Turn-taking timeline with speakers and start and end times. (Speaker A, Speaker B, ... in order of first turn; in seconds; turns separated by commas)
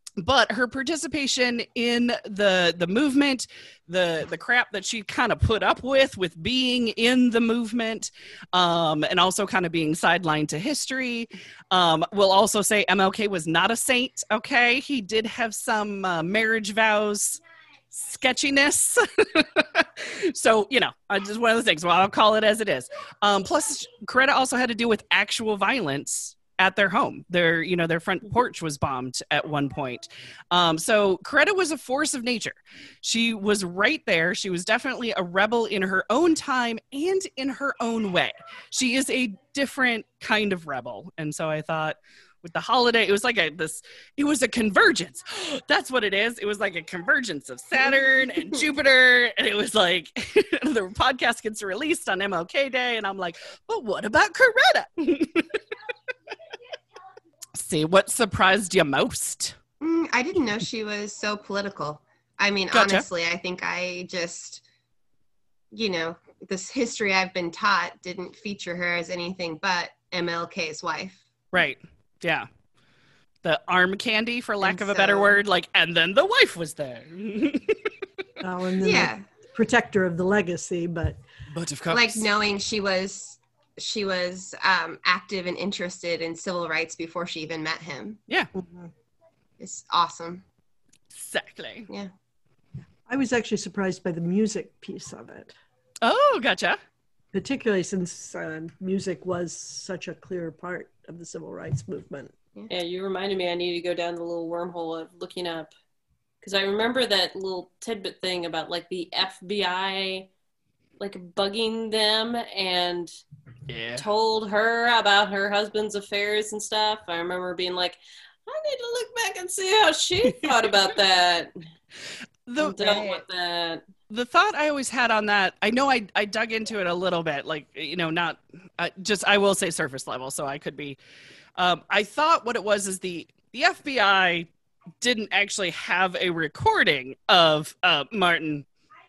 Speaker A: 0.2-55.5, Speaker A: 57.5-59.6, Speaker B: 59.8-64.6, Speaker A: 62.7-63.1, Speaker B: 65.7-71.2, Speaker A: 71.5-72.5, Speaker A: 73.4-77.9, Speaker B: 74.6-75.4, Speaker C: 78.4-81.2, Speaker B: 78.8-79.2, Speaker A: 81.5-82.3, Speaker B: 81.9-88.2, Speaker C: 88.5-88.9, Speaker B: 89.6-90.4, Speaker A: 91.1-91.9, Speaker C: 93.0-95.5, Speaker A: 96.0-96.8, Speaker C: 97.3-102.3, Speaker D: 102.7-105.7, Speaker D: 106.4-110.3, Speaker D: 111.0-113.2, Speaker A: 113.7-114.0, Speaker D: 114.0-121.5, Speaker A: 122.5-123.0, Speaker D: 122.6-123.8, Speaker B: 122.8-123.2, Speaker A: 124.1-131.0, Speaker A: 131.6-134.5, Speaker A: 135.0-138.7